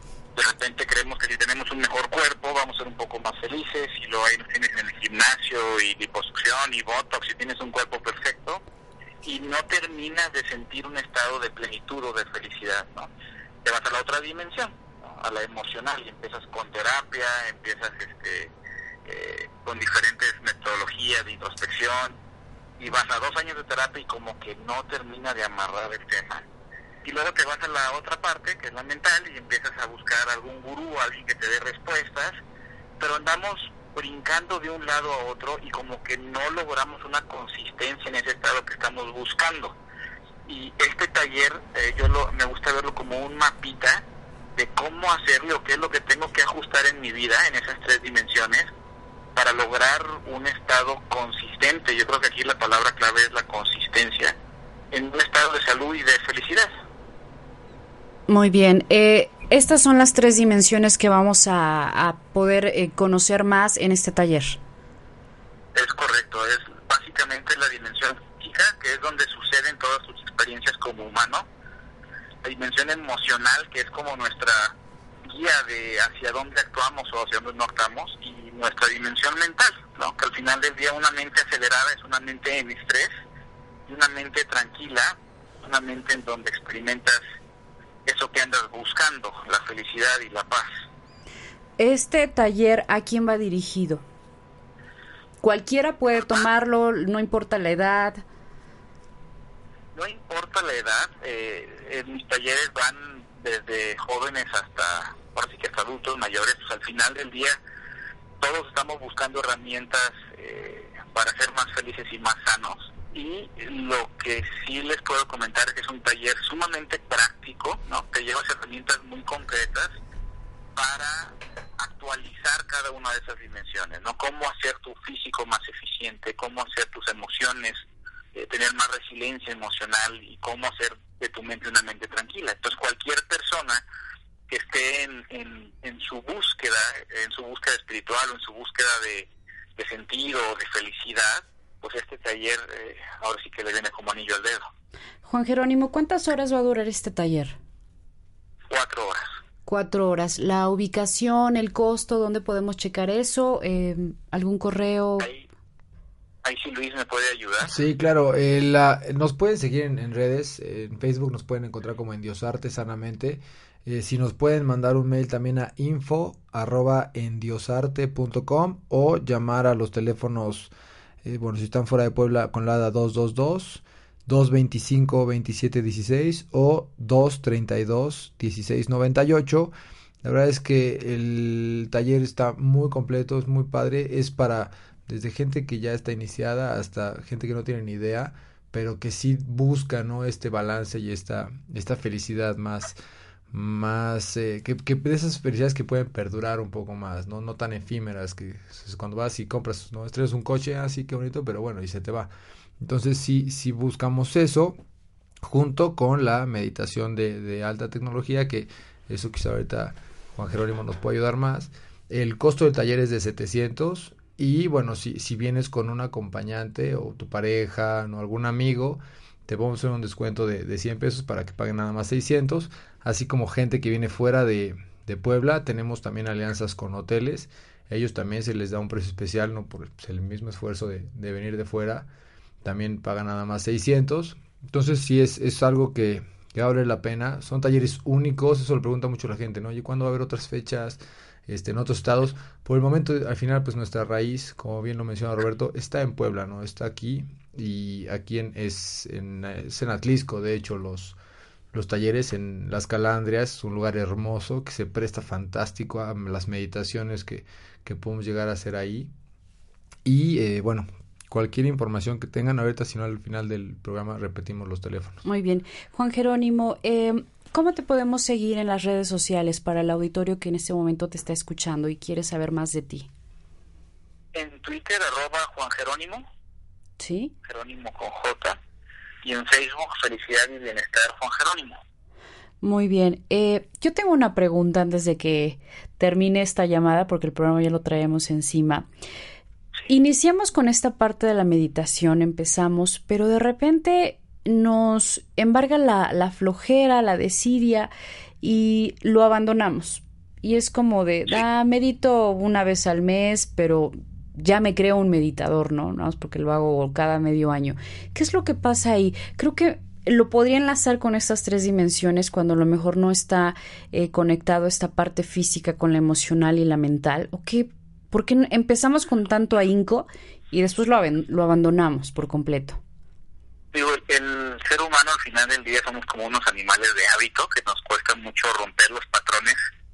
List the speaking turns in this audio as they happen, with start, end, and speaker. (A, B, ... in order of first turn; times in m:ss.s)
0:00.4-0:08.6 A
0:09.2-0:13.1 A
0:13.6-0:18.5 A
0:19.0-0:22.2 A
0:22.8-0:26.5 A
0:27.0-0:32.4 A
0:33.0-0:39.8 A
0:40.5-0:48.7 A
0:49.4-0:54.4 A
0:54.9-0:56.7 A
0:58.3-1:04.6 B
1:05.7-1:11.5 A
1:12.4-1:14.7 A
1:15.3-1:23.1 A
1:23.9-1:27.2 A
1:28.1-1:30.7 A
1:31.8-1:34.0 B
1:35.4-1:38.2 B
1:40.0-1:47.6 A
1:48.4-1:59.9 A
2:00.8-2:07.8 A
2:08.3-2:13.8 A
2:14.5-2:24.7 A
2:25.2-2:27.6 B
2:28.7-2:29.2 A
2:29.7-2:35.3 B
2:35.2-2:35.4 A
2:36.4-2:37.8 A
2:37.6-2:50.7 C
2:51.2-3:13.0 C
3:13.5-3:24.8 C
3:25.4-3:52.1 C
3:52.6-4:11.2 C
4:11.7-4:19.1 C
4:20.0-4:25.2 C
4:25.2-4:33.1 B
4:34.3-4:36.3 A
4:37.0-4:37.3 B
4:37.5-4:38.6 A
4:39.2-4:41.8 A
4:42.6-4:48.9 B
4:49.9-4:57.9 B
4:58.4-5:22.8 B
5:23.7-5:29.6 A